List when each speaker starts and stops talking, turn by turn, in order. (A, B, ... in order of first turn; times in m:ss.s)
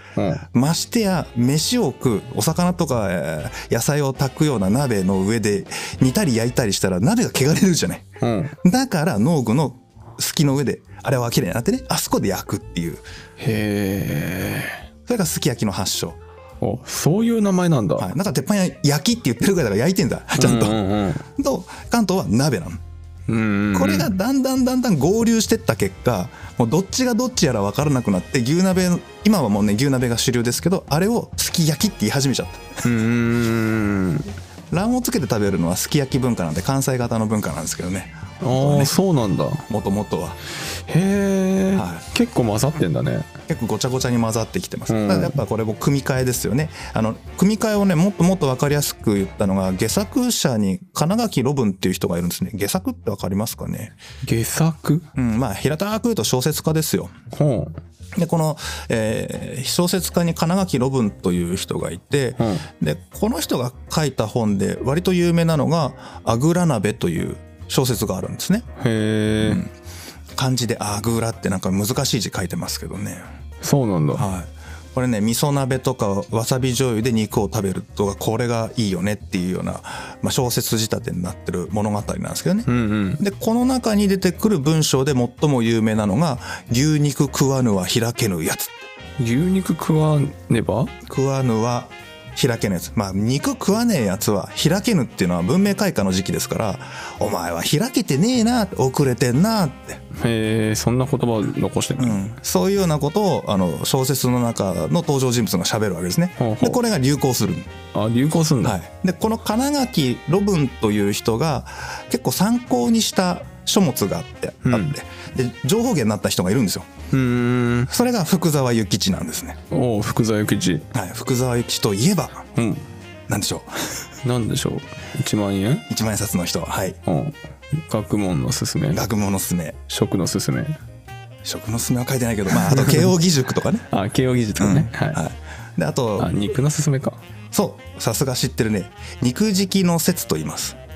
0:00.2-0:00.4 A
0:00.4-0:08.1 B
0:08.2-0:08.5 A
0:08.6-0:13.0 B
0:13.4-0:14.8 A
0:15.1-0:16.2 B
0:16.6-0:18.1 A
0:18.0-0:20.8 B
0:20.4-0:21.2 A
0:21.4-0:22.8 B
0:23.3-0:24.1 A
0:23.7-0:32.8 B
0:32.8-0:34.3 A
0:34.7-0:38.9 B
0:38.4-0:39.7 A
0:39.7-0:40.4 B
0:40.9-0:43.3 A
0:41.7-0:42.0 B
0:43.5-0:54.0 B
0:44.9-0:45.4 A
0:54.2-0:55.1 A
0:55.1-0:57.1 B
0:57.3-0:57.8 A
0:58.2-1:08.6 B
1:02.4-1:02.6 A
1:08.8-1:09.6 A
1:09.4-1:09.7 B
1:10.4-1:13.2 B
1:13.6-1:14.2 A
1:14.1-1:22.7 B
1:22.6-1:23.2 A
1:23.2-1:28.9 B
1:29.2-1:30.9 A
1:31.0-1:40.0 B
1:40.1-1:42.2 A
1:42.0-1:47.7 B
1:46.4-1:46.8 A
1:47.9-1:48.8 A
1:48.6-1:56.9 B
1:54.6-1:54.9 A
1:57.1-1:57.9 A
1:57.9-1:59.6 B
1:59.7-2:00.9 A
2:00.9-2:02.5 B
2:02.5-2:02.8 A
2:03.3-2:04.0 B
2:04.2-2:05.8 A
2:05.9-2:07.0 B
2:07.0-2:09.0 A
2:08.9-2:09.8 B
2:09.9-2:10.8 A
2:11.4-2:13.9 B
2:12.6-2:13.1 A
2:13.9-2:15.2 A
2:14.6-2:16.3 B
2:16.2-2:17.2 A
2:17.5-2:20.8 B